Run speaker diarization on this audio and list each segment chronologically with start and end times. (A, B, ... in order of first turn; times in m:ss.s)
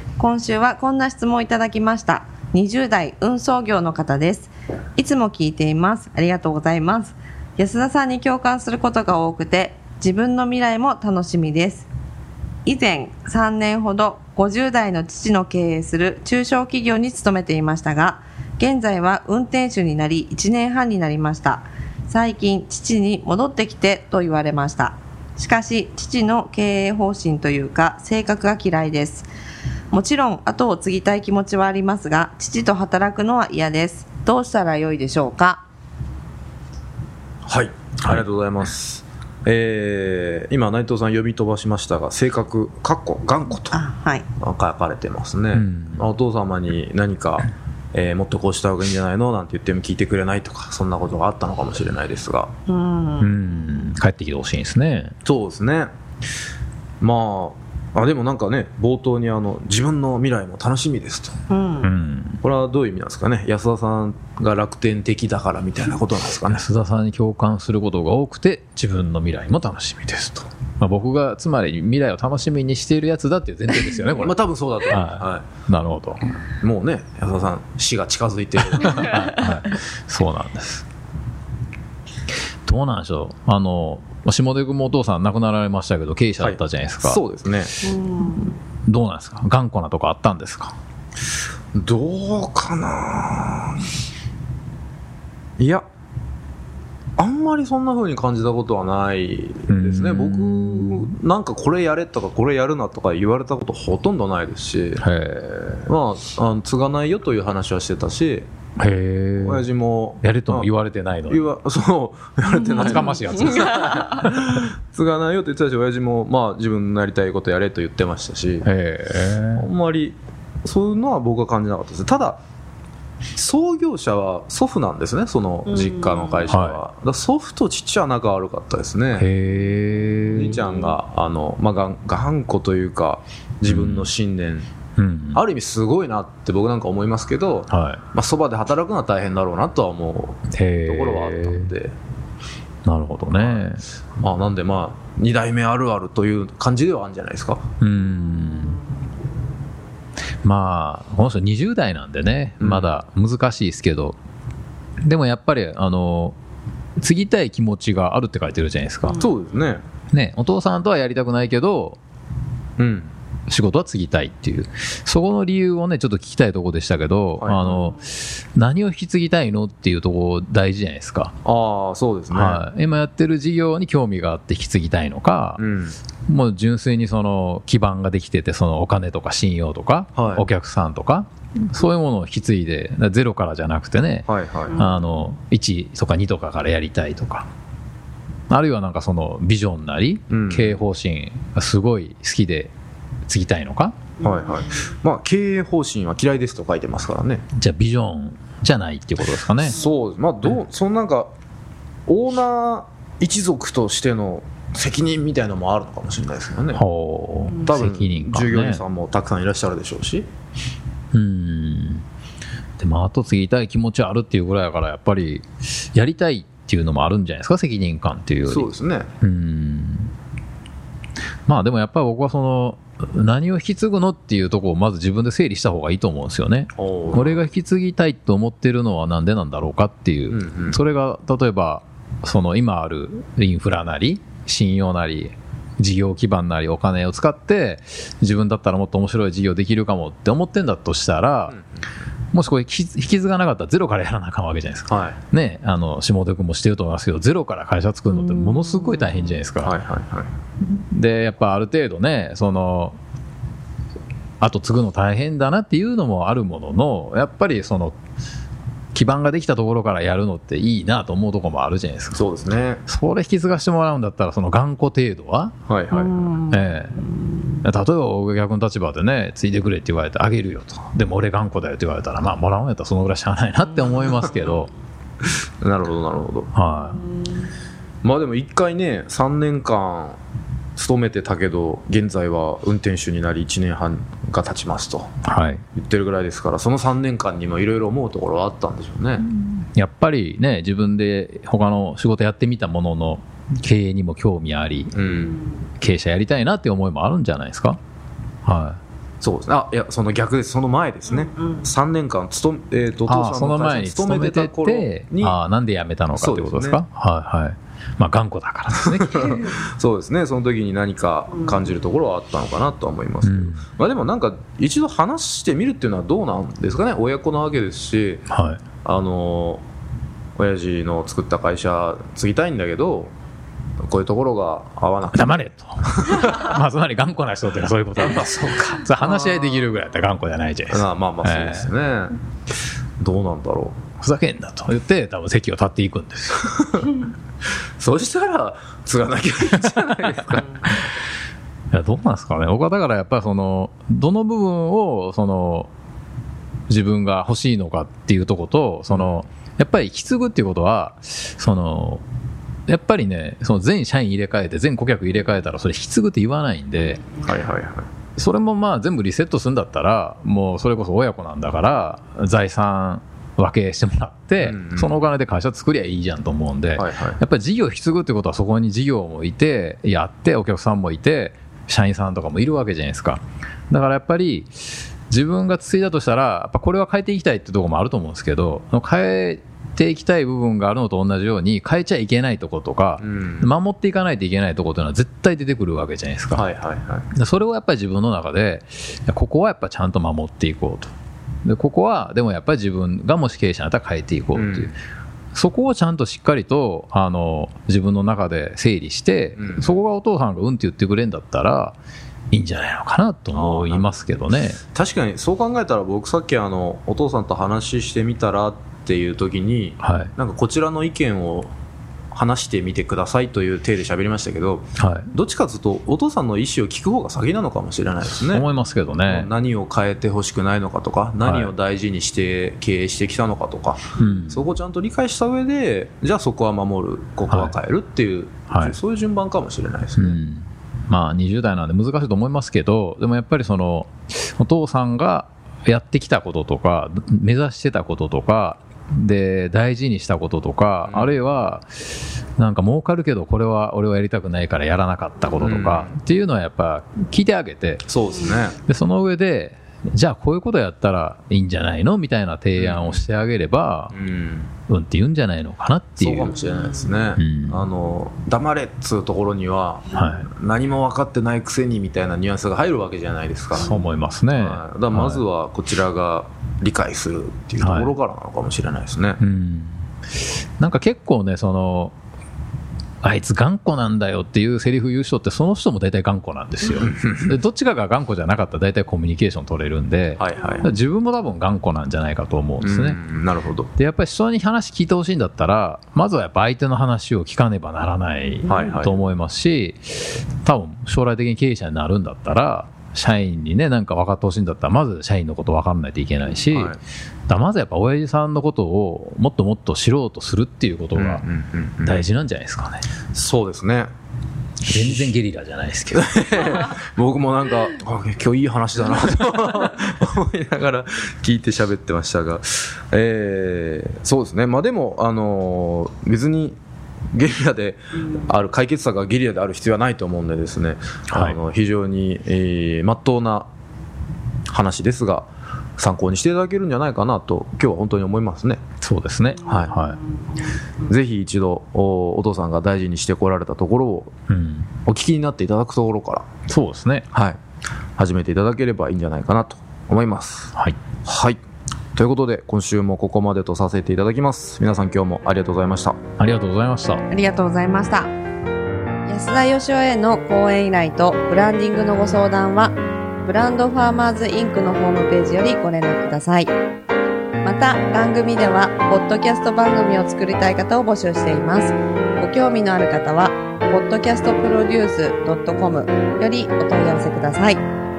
0:00.2-0:11.9 A
0:12.7-0:29.3 A
0:29.9-0:35.6 A
0:37.5-0:43.8 B
0:43.7-0:44.2 A
0:44.4-0:52.5 B
0:45.5-0:46.1 C
0:52.7-0:53.3 A
0:53.2-0:55.2 C
0:55.2-0:55.9 B
0:57.0-1:01.4 B
1:01.5-1:01.9 A
1:01.8-1:02.4 C
1:02.4-1:06.6 B
1:06.5-1:14.4 C
1:14.2-1:15.5 B
1:14.9-1:16.3 C
1:16.6-1:19.2 B
1:18.8-1:20.8 C
1:22.7-1:27.2 C
1:26.4-1:28.0 B
1:28.9-1:30.8 C
1:31.8-1:33.8 B
1:35.6-1:35.8 B
1:37.2-1:45.0 B
1:39.7-1:41.1 C
1:45.0-1:45.8 C
1:45.8-1:48.5 B
1:48.8-1:49.7 C
1:49.4-1:50.7 B
1:50.2-1:51.5 C
1:51.3-1:58.7 B
1:52.7-1:54.2 C
1:58.6-1:59.7 C
1:59.6-2:02.4 B
2:03.4-2:09.3 B
2:06.5-2:06.8 C
2:09.2-2:10.6 C
2:10.3-2:14.7 B
2:13.6-2:14.1 C
2:15.0-2:15.4 C
2:15.3-2:21.9 B
2:17.7-2:18.0 C
2:20.5-2:21.7 C
2:22.8-2:23.8 C
2:23.4-2:23.6 B
2:24.2-2:27.7 B
2:27.8-2:28.8 C
2:30.4-2:34.2 C
2:32.6-2:32.9 B
2:35.0-2:36.4 C
2:37.0-2:39.3 C
2:39.1-2:39.8 B
2:40.1-2:42.0 C
2:42.8-2:43.1 B
2:43.5-2:51.3 C
2:47.4-2:47.9 B
2:51.4-2:52.6 B
2:52.3-2:55.6 C
2:55.6-2:56.0 B
2:56.3-3:07.5 C
3:00.2-3:00.5 B
3:04.3-3:04.8 B
3:08.5-3:12.7 C
3:10.3-3:10.8 B
3:13.3-3:14.1 C
3:14.2-3:17.4 B
3:17.5-3:19.8 C
3:19.6-3:21.3 B
3:22.1-3:26.8 B
3:26.7-3:28.8 C
3:27.6-3:30.3 B
3:31.1-3:32.0 C
3:32.8-3:40.1 C
3:38.5-3:39.1 B
3:41.5-4:01.6 C
3:46.8-3:47.4 B
3:50.3-3:50.8 B
4:01.5-4:01.9 B
4:02.3-4:09.8 C
4:04.9-4:05.2 B
4:09.6-4:10.3 B
4:10.7-4:13.0 C
4:14.4-4:18.0 C
4:18.9-4:22.2 C
4:22.1-4:22.8 B
4:22.9-4:25.6 C
4:25.7-4:26.3 B
4:26.5-4:27.0 C
4:27.6-4:34.7 C
4:35.6-4:36.5 B
4:36.5-4:37.1 C
4:38.0-4:40.2 B
4:40.8-4:45.1 B
4:45.2-4:45.6 C
4:45.8-4:49.2 B
4:49.2-4:55.0 C
4:54.9-4:55.5 B
4:55.8-4:57.8 C
4:58.4-4:58.8 C
4:59.2-5:05.4 B
5:03.1-5:09.3 C
5:06.1-5:06.8 B
5:08.8-5:18.2 B
5:13.2-5:13.7 C
5:18.3-5:18.6 C
5:18.8-5:19.6 B
5:20.4-5:23.1 B
5:23.8-5:26.5 B
5:25.1-5:31.7 C
5:28.0-5:29.6 B
5:30.7-5:32.2 B
5:33.0-5:33.8 B
5:34.0-5:36.5 C
5:36.5-5:36.9 B
5:37.8-5:40.7 B
5:41.7-5:45.7 C
5:46.7-5:52.0 C
5:48.9-5:49.2 B
5:52.7-5:57.1 C
5:57.2-5:57.9 B
5:58.2-6:14.5 C
6:04.4-6:05.0 B
6:06.8-6:07.2 B
6:15.1-6:26.5 C
6:23.0-6:23.5 B
6:26.3-6:27.1 B
6:27.1-6:30.9 C
6:31.4-6:34.7 C
6:34.4-6:34.7 B
6:35.3-6:41.8 C
6:39.4-6:39.7 B
6:42.3-6:44.6 C
6:43.3-6:43.9 B
6:44.7-6:51.5 B
6:49.8-6:50.1 C
6:52.1-6:58.5 B
6:54.8-6:55.1 C
6:58.1-6:59.3 C
6:59.0-7:10.2 B
7:01.2-7:01.5 C
7:04.0-7:04.5 C
7:07.3-7:07.6 C
7:08.5-7:08.8 C
7:10.0-7:21.7 C
7:20.9-7:21.1 B
7:22.4-7:27.9 C
7:25.4-7:26.0 B
7:27.9-7:28.6 B
7:28.6-7:33.9 C
7:32.6-7:33.0 B
7:33.9-7:34.5 B
7:34.7-7:36.3 C
7:36.0-7:43.7 B
7:37.2-7:37.6 C
7:39.9-7:40.3 C
7:43.6-7:45.2 C
7:44.4-7:49.2 B
7:47.6-7:48.0 C
7:49.2-7:49.8 C
7:50.6-7:51.9 C
7:53.0-8:03.0 C
7:56.8-7:57.4 B
8:00.2-8:00.7 B
8:02.6-8:03.7 B
8:03.8-8:16.8 C
8:08.5-8:09.0 B
8:16.5-8:16.8 B
8:17.3-8:21.2 C
8:21.0-8:22.1 B
8:21.8-8:22.8 C
8:23.1-8:23.9 B
8:24.6-8:26.8 C
8:24.7-8:25.1 B
8:25.9-8:36.6 B
8:37.1-8:43.5 B
8:41.1-8:41.4 C
8:44.5-8:48.6 B
8:48.8-8:50.0 C
8:49.4-8:49.8 B
8:50.8-8:54.1 B
8:54.3-8:54.7 C
8:54.8-8:56.3 B
8:56.5-8:57.1 C
8:57.1-8:57.4 B
8:58.0-9:00.5 B
9:01.0-9:01.4 B
9:02.0-9:06.0 B
9:06.2-9:07.0 C
9:07.1-9:08.1 A
9:09.1-9:16.5 A
9:17.4-9:27.6 A